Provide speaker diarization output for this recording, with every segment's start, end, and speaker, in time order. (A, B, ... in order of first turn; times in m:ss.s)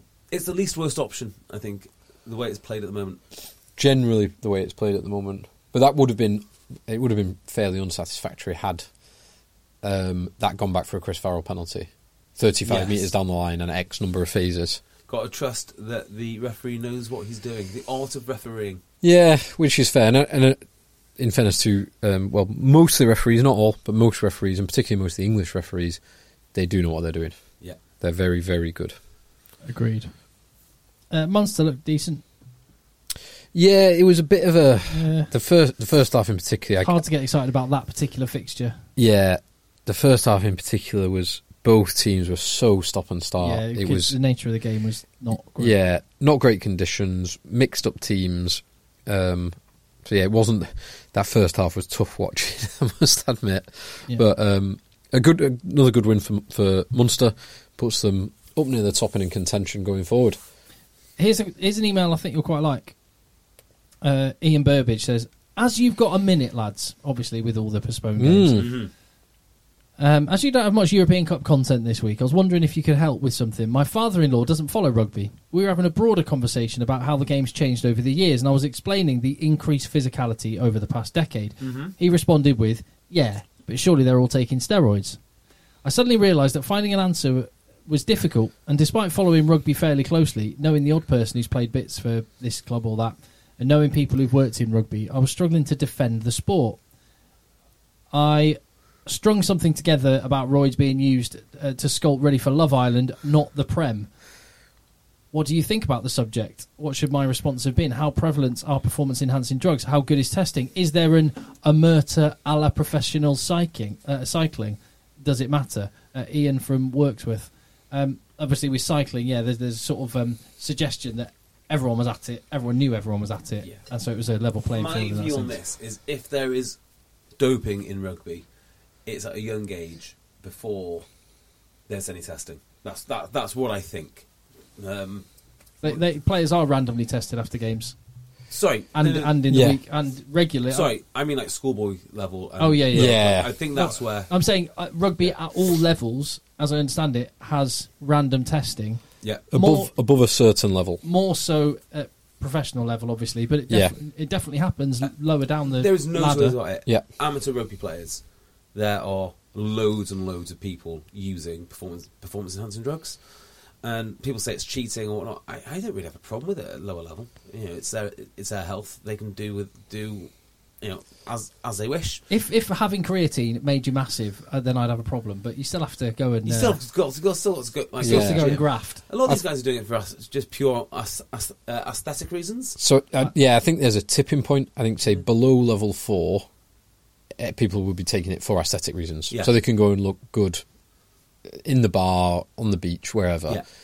0:00.3-0:03.2 A
0:03.8-0:08.8 B
0:09.8-0:14.8 B
0:12.7-0:13.1 A
0:15.1-0:18.8 A
0:19.0-0:20.6 B
0:21.2-0:26.0 B
0:26.5-0:27.5 B
0:28.0-0:29.0 B
0:29.6-0:30.1 C
0:31.1-0:32.2 C
0:33.5-0:37.0 B
0:34.9-0:35.3 C
0:36.8-0:38.8 C
0:39.0-0:44.2 B
0:43.4-0:45.8 C
0:45.5-1:00.4 B
1:01.2-1:03.0 C
1:04.0-1:08.7 C
1:08.2-1:08.7 B
1:08.6-1:08.9 A
1:10.0-1:25.2 C
1:21.6-1:21.9 A
1:25.8-1:36.8 C
1:38.1-1:44.1 C
1:45.3-2:05.6 C
2:04.7-2:06.8 A
2:07.4-2:08.4 A
2:09.1-2:11.1 A
2:11.9-2:14.3 A
2:14.8-2:15.2 A
2:15.8-2:18.0 C
2:18.5-2:19.3 A
2:19.0-2:20.9 C
2:19.5-2:19.8 B
2:20.7-2:24.3 A
2:22.6-2:29.0 C
2:22.9-2:23.5 B
2:29.5-2:31.0 B
2:29.5-2:29.9 C
2:31.0-2:36.6 C
2:33.7-2:33.9 B
2:35.8-2:38.2 A
2:38.7-2:43.2 A
2:43.8-2:50.3 A
2:50.8-2:52.2 A
2:52.3-2:56.8 C
2:56.4-3:02.8 A
2:58.0-2:58.7 B
2:58.0-2:59.0 C
3:02.8-3:06.5 B
3:07.4-3:10.6 B
3:11.5-3:13.6 B